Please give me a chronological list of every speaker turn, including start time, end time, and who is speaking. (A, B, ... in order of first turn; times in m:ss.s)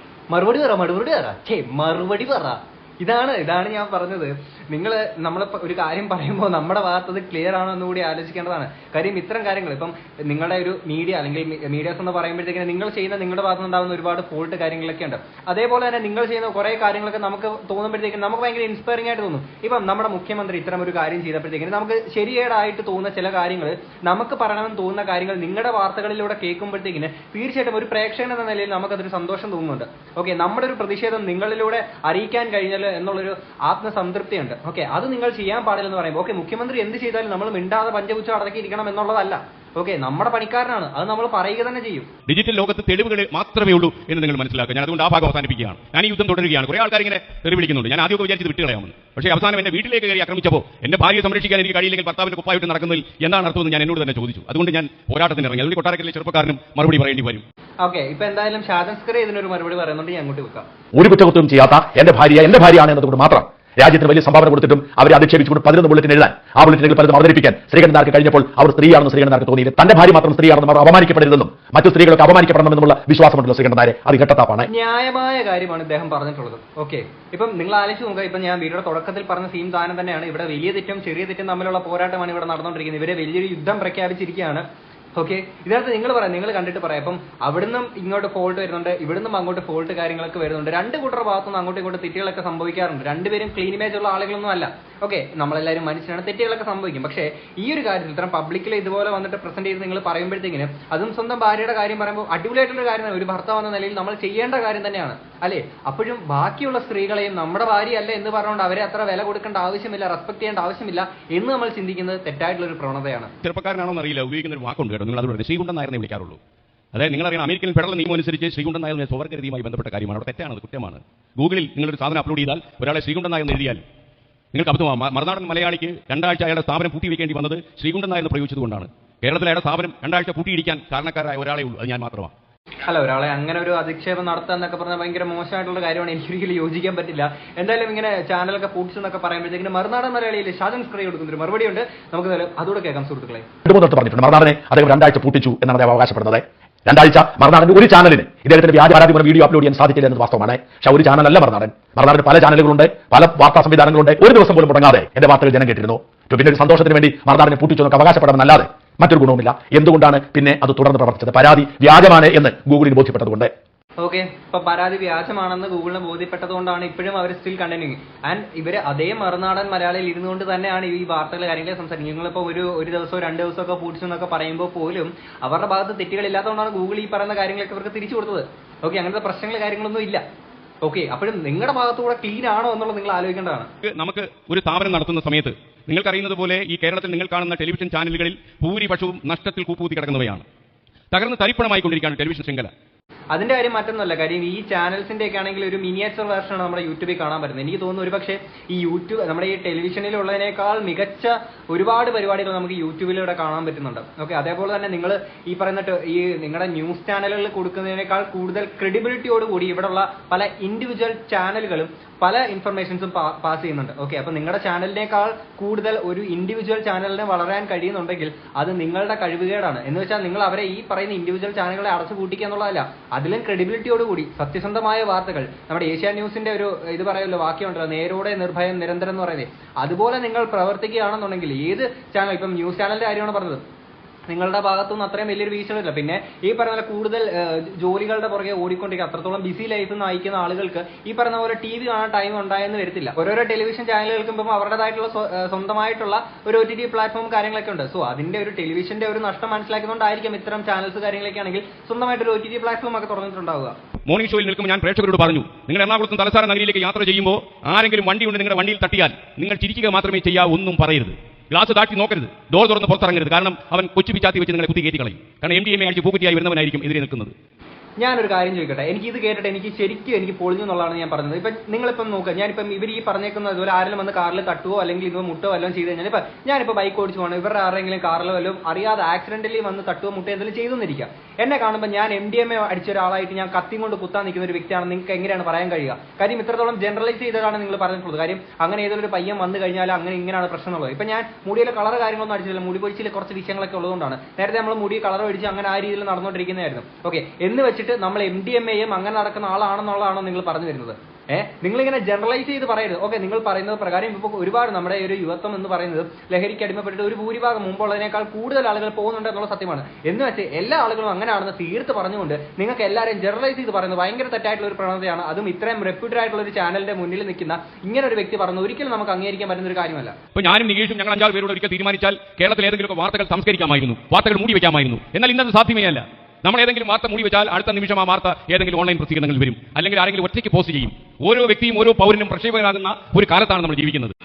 0:00.3-0:42.1 A
0:42.3-0:57.4 B
0:57.8-1:00.6 A
1:00.9-1:14.7 C
1:14.7-1:24.6 A
1:25.2-1:53.3 A
1:53.4-1:56.4 B
1:56.9-2:03.8 B
2:04.5-2:12.3 B
2:12.8-2:23.4 A
2:23.6-2:43.5 C
2:44.0-3:00.2 A
3:00.8-3:03.7 A
3:03.8-3:10.4 B
3:11.1-3:12.7 B
3:13.3-3:53.6 A
3:54.3-4:13.8 A
4:14.0-4:27.3 B
4:28.0-5:20.2 A
5:20.3-5:34.1 B